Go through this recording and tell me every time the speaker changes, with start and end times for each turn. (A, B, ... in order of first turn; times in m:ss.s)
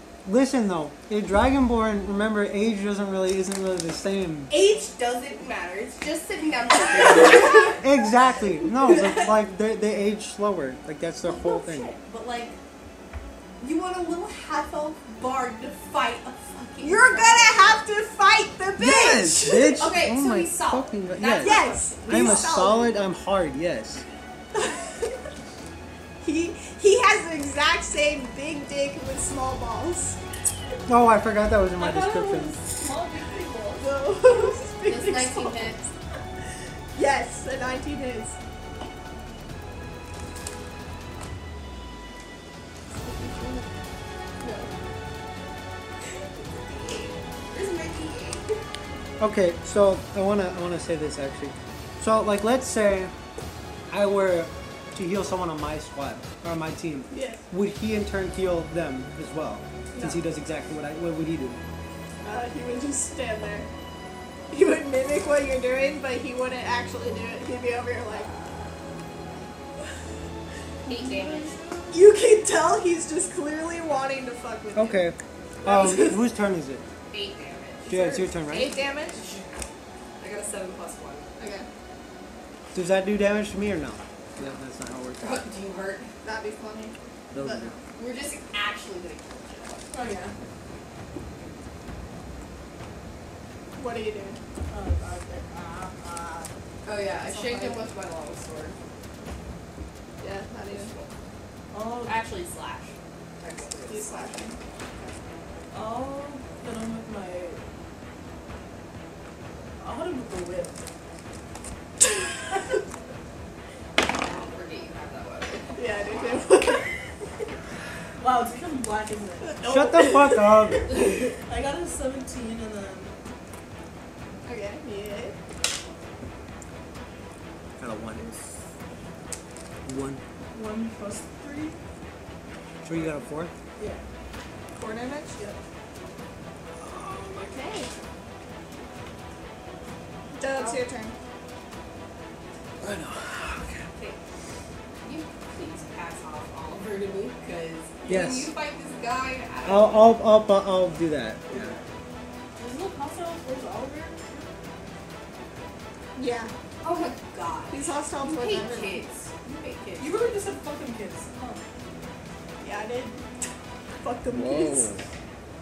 0:00.2-0:04.5 A
0:04.5-0:07.8 B
0:07.2-0:07.8 C
0:07.8-0:12.0 A
0:08.9-0:09.3 B
0:11.2-0:12.6 B
0:13.6-0:17.7 B
0:16.8-0:19.9 C
0:18.8-0:24.0 A
0:19.7-0:21.9 B
0:21.4-0:22.9 C
0:21.6-0:22.5 D
0:24.5-0:25.1 C
0:26.2-0:30.2 C
0:30.8-0:32.6 A
0:31.8-0:33.9 D
0:33.8-0:35.8 C
0:34.8-0:35.8 B
0:36.9-0:38.4 C
0:43.0-0:43.6 C
0:46.6-0:47.1 C
0:47.5-0:48.6 B
0:49.2-0:53.1 A
0:53.9-1:01.6 A
0:57.1-0:57.4 C
0:59.9-1:00.2 C
1:02.2-1:03.7 C
1:04.5-1:08.3 C
1:08.1-1:09.5 B
1:10.8-1:11.6 B
1:10.9-1:11.6 D
1:11.9-1:15.0 C
1:14.7-1:16.8 A
1:15.6-1:16.2 C
1:17.1-1:19.6 B
1:17.9-1:18.7 A
1:17.9-1:19.2 C
1:20.2-1:21.3 B
1:21.4-1:21.7 C
1:22.7-1:25.5 A
1:25.2-1:26.1 B
1:26.2-1:27.8 C
1:27.3-1:27.7 A
1:27.9-1:29.9 B
1:29.9-1:30.3 D
1:33.8-1:34.4 C
1:34.7-1:36.5 D
1:36.8-1:38.8 B
1:37.3-1:37.8 C
1:40.2-1:40.9 C
1:40.7-1:41.1 B
1:41.7-1:42.2 D
1:42.0-1:44.4 B
1:43.9-1:44.6 C
1:45.7-1:47.6 D
1:49.8-1:50.8 D
1:54.0-1:56.4 B
1:55.7-1:56.9 C
1:58.2-2:00.4 D
1:59.6-2:00.3 C
1:59.6-2:00.9 A
2:00.9-2:03.2 D
2:04.4-2:05.4 C
2:07.8-2:08.4 A
2:09.8-2:10.2 A
2:10.5-2:11.8 D
2:12.8-2:13.5 A
2:13.8-2:14.0 D
2:14.7-2:15.4 C
2:16.8-2:17.9 B
2:20.3-2:21.1 C
2:20.5-2:20.8 B
2:22.8-2:23.8 A
2:25.0-2:30.1 B
2:28.1-2:28.5 A
2:29.6-2:31.7 A
2:31.5-2:31.8 B
2:32.6-2:34.5 D
2:36.2-2:36.5 C
2:36.8-2:40.3 B
2:37.7-2:39.0 C
2:40.0-2:41.6 D
2:42.6-2:44.9 C
2:44.3-2:45.0 A